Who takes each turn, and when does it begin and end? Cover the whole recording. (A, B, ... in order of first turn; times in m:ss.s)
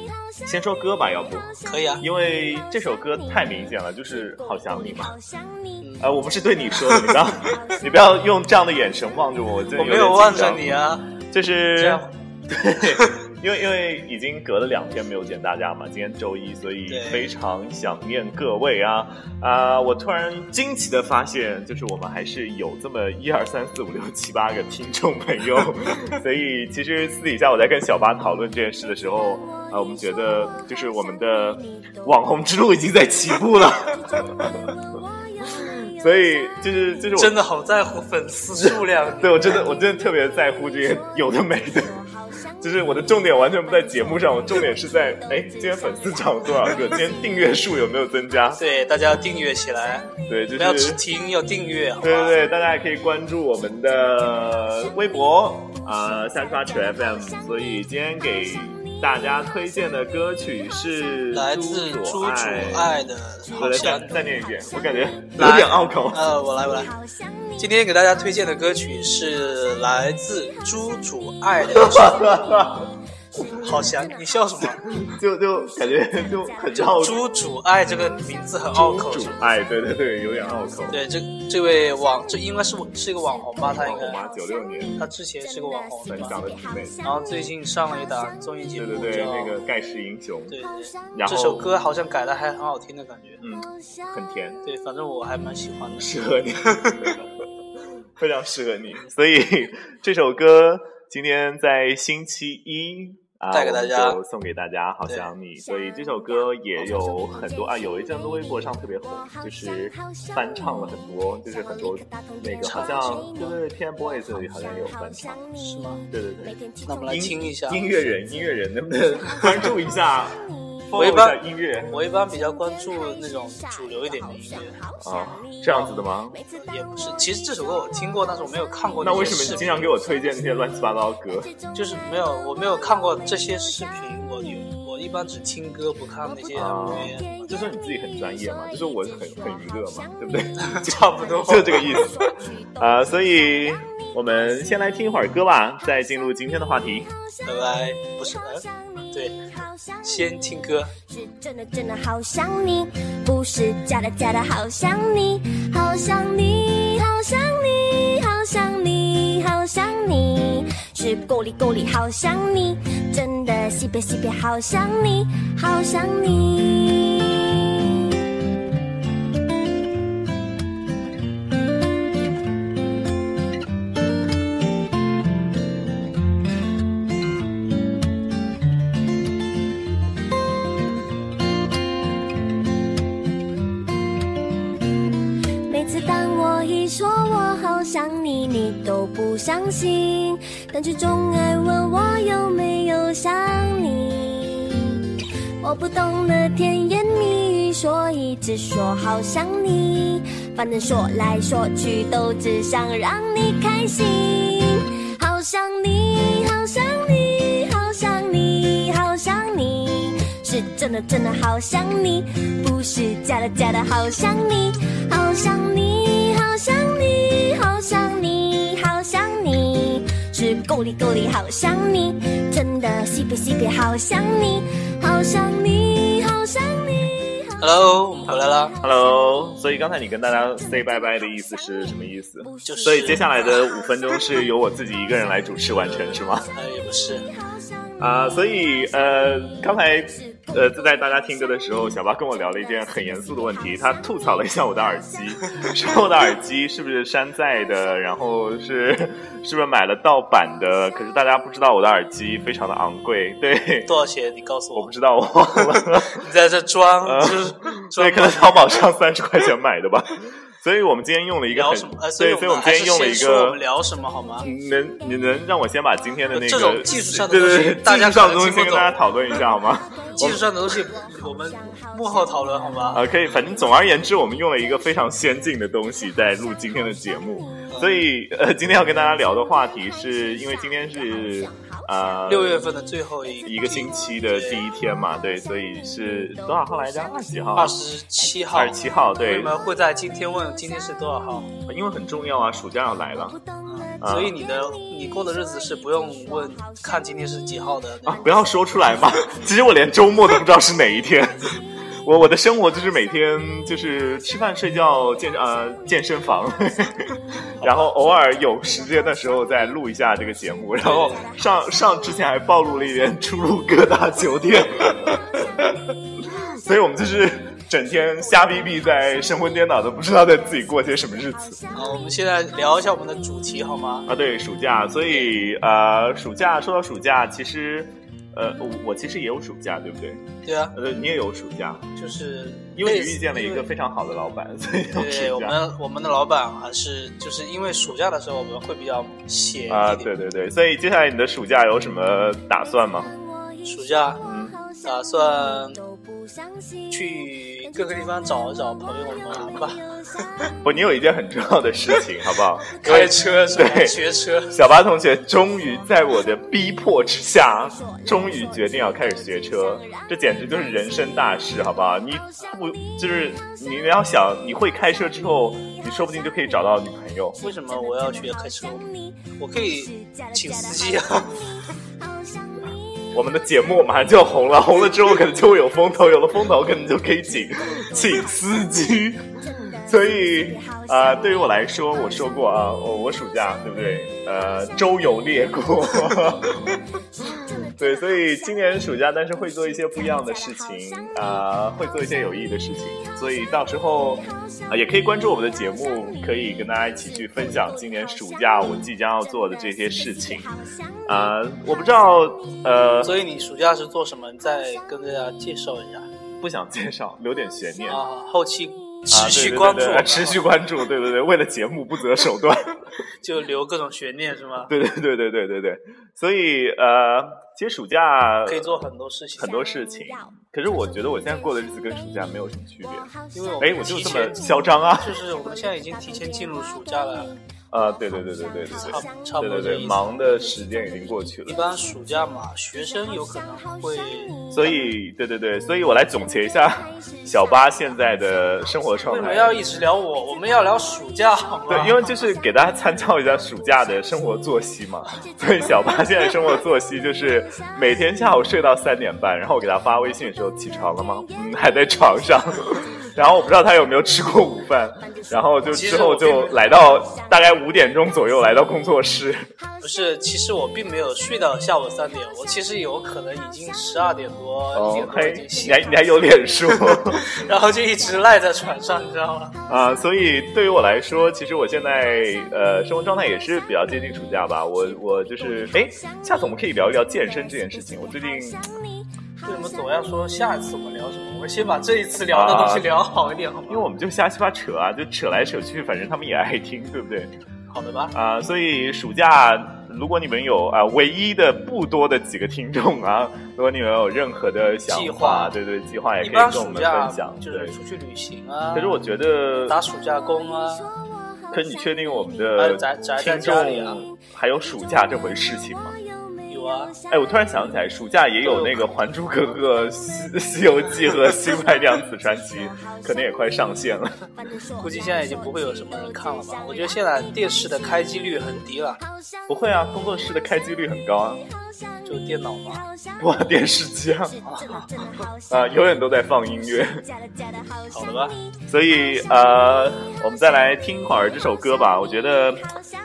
0:00.5-0:05.2 A
0:01.6-0:02.0 B
0:04.1-0:06.6 C
0:05.8-0:06.1 B
0:06.0-0:10.8 A
0:06.7-0:07.6 B
0:07.4-0:07.9 C
0:09.7-0:11.1 B
0:11.3-0:34.7 A
0:11.7-0:12.1 B
0:12.8-0:13.2 B
0:16.9-0:17.3 B
0:28.9-0:32.2 C
0:33.7-0:36.9 C
0:36.0-0:37.4 A
0:37.1-0:39.6 B
0:38.6-0:42.0 A
0:39.8-0:47.2 C
0:42.6-0:48.6 A
0:48.6-0:52.4 B
0:50.3-0:51.0 A
0:52.0-1:03.0 A
0:56.1-0:59.0 C
1:01.3-1:04.3 B
1:03.6-1:06.4 A
1:03.9-1:05.2 C
1:05.4-1:06.9 B
1:06.2-1:08.0 C
1:07.6-1:12.4 B
1:11.7-1:12.9 A
1:13.5-1:14.5 C
1:13.5-1:14.9 B
1:14.6-1:17.2 A
1:15.9-1:16.9 C
1:16.7-1:19.6 B
1:17.8-1:21.0 A
1:20.9-1:24.2 B
1:23.0-1:28.4 C
1:23.6-1:25.0 A
1:25.0-1:26.4 B
1:26.1-1:27.0 A
1:27.0-1:29.7 B
1:28.8-1:30.6 A
1:30.5-1:33.4 B
1:30.8-1:31.3 C
1:31.1-1:31.7 A
1:33.4-1:34.6 A
1:33.7-1:34.1 C
1:34.6-1:36.2 B
1:36.0-1:37.2 A
1:36.7-1:37.1 B
1:38.2-1:55.4 A
1:43.5-1:44.2 B
1:45.1-1:45.3 B
1:45.7-1:57.4 C
1:52.6-1:53.4 B
1:55.6-1:56.0 B
1:56.1-2:02.0 A
1:56.8-1:57.8 B
2:00.3-2:00.9 C
2:00.9-2:04.8 B
2:02.3-2:07.3 C
2:05.0-2:06.4 A
2:06.5-2:10.0 B
2:09.0-2:11.5 A
2:09.3-2:10.0 C
2:11.4-2:14.8 C
2:11.7-2:17.6 B
2:16.5-2:27.1 A
2:17.1-2:24.8 C
2:20.6-2:22.2 B
2:27.2-2:30.4 C
2:27.4-2:29.4 B
2:30.0-2:30.9 B
2:30.9-2:48.0 C
3:05.6-3:47.9 C
3:47.6-3:48.8 B
3:48.8-3:56.5 A
3:48.8-3:49.5 C
3:50.4-3:54.2 C
3:52.6-3:53.5 B
3:55.7-3:57.3 B
3:56.4-4:01.4 C
3:58.0-4:13.9 A
4:02.6-4:04.4 C
4:13.8-4:14.9 B
4:14.7-4:16.2 A
4:15.5-4:18.8 B
4:17.0-4:23.6 A
4:21.5-4:24.5 B
4:24.4-4:30.6 A
4:26.3-4:29.1 B
4:30.0-4:32.9 C
4:30.2-4:33.0 B
4:32.9-4:42.7 A
4:33.5-4:34.0 C
4:36.1-4:37.7 C
4:39.6-4:42.5 C
4:42.2-4:44.7 B
4:43.4-4:47.8 A
4:45.1-4:47.3 C
4:47.5-4:51.5 B
4:48.5-4:49.5 A
4:51.7-4:53.4 A
4:53.6-4:58.3 B
4:54.0-4:54.4 A
4:55.7-4:56.8 C
4:58.0-5:15.9 A
5:07.6-5:07.9 B
5:08.6-5:09.8 C
5:10.8-5:11.3 B
5:11.0-5:12.2 C
5:16.4-5:16.7 C
5:16.5-5:21.6 A
5:18.0-5:22.4 C
5:21.7-5:24.1 B
5:24.0-5:31.9 A
5:25.1-5:25.4 B
5:30.4-5:30.8 B
5:32.0-5:33.7 B
5:32.8-5:35.6 A
5:34.9-5:40.1 B
5:39.7-5:43.1 A
5:42.8-5:50.7 C
5:43.6-5:44.2 B
5:44.2-5:44.6 A
5:44.8-5:45.8 B
5:46.9-5:50.3 B
5:50.6-6:07.4 A
5:52.7-5:54.6 B
5:55.8-5:56.1 C
5:57.4-6:03.6 C
6:05.7-6:06.7 C
6:07.4-6:08.9 B
6:07.4-6:13.2 C
6:09.4-6:11.5 B
6:13.1-6:26.8 A
6:17.6-6:22.6 C
6:26.1-6:31.8 C
6:27.8-6:40.5 A
6:33.0-6:41.7 C
6:41.0-6:43.2 A
6:43.0-6:46.1 B
6:46.4-6:48.1 A
6:47.9-6:50.4 B
6:49.1-6:52.7 A
6:53.2-6:54.7 B
6:54.7-6:58.8 A
6:58.4-6:59.7 B
6:59.4-7:05.2 A
6:59.5-7:02.0 C
7:02.8-7:03.8 C
7:03.3-7:07.3 B
7:05.0-7:07.3 C
7:07.7-7:11.6 A
7:07.9-7:12.0 C
7:08.7-7:10.1 B
7:11.4-7:14.9 B
7:12.7-7:14.8 C
7:14.5-7:19.6 A
7:16.8-7:18.7 C
7:19.1-7:22.0 B
7:21.7-7:39.5 A
7:25.4-7:26.0 C
7:35.2-7:35.4 C
7:35.6-7:36.6 B
7:36.6-7:37.3 C
7:39.8-7:49.5 B
7:44.7-7:47.3 A
7:49.7-7:58.6 A
7:55.6-7:56.5 C
7:57.0-7:58.8 C
7:59.4-7:59.8 C
7:59.4-8:03.9 B
8:02.3-8:02.9 A
8:03.7-8:07.3 A
8:07.7-8:08.1 B
8:08.1-8:17.8 A
8:14.8-8:15.6 B
8:16.2-8:19.0 B
8:18.7-8:19.8 A
8:19.6-8:20.9 B
8:20.2-8:22.8 C
8:21.5-8:25.9 A
8:22.5-8:24.0 B
8:25.8-8:27.3 C
8:26.5-8:27.0 B
8:27.1-8:34.3 A
8:28.4-8:28.9 B
8:31.4-8:38.2 C
8:34.8-8:39.0 B
8:39.0-8:39.5 C
8:39.5-8:41.4 A
8:41.6-8:45.8 C
8:42.0-8:42.8 B
8:43.2-8:44.4 A
8:44.4-8:45.0 B
8:45.5-8:47.0 A
8:46.7-8:48.6 C
8:47.9-8:48.4 B
8:48.7-8:52.6 A
8:49.4-8:50.1 C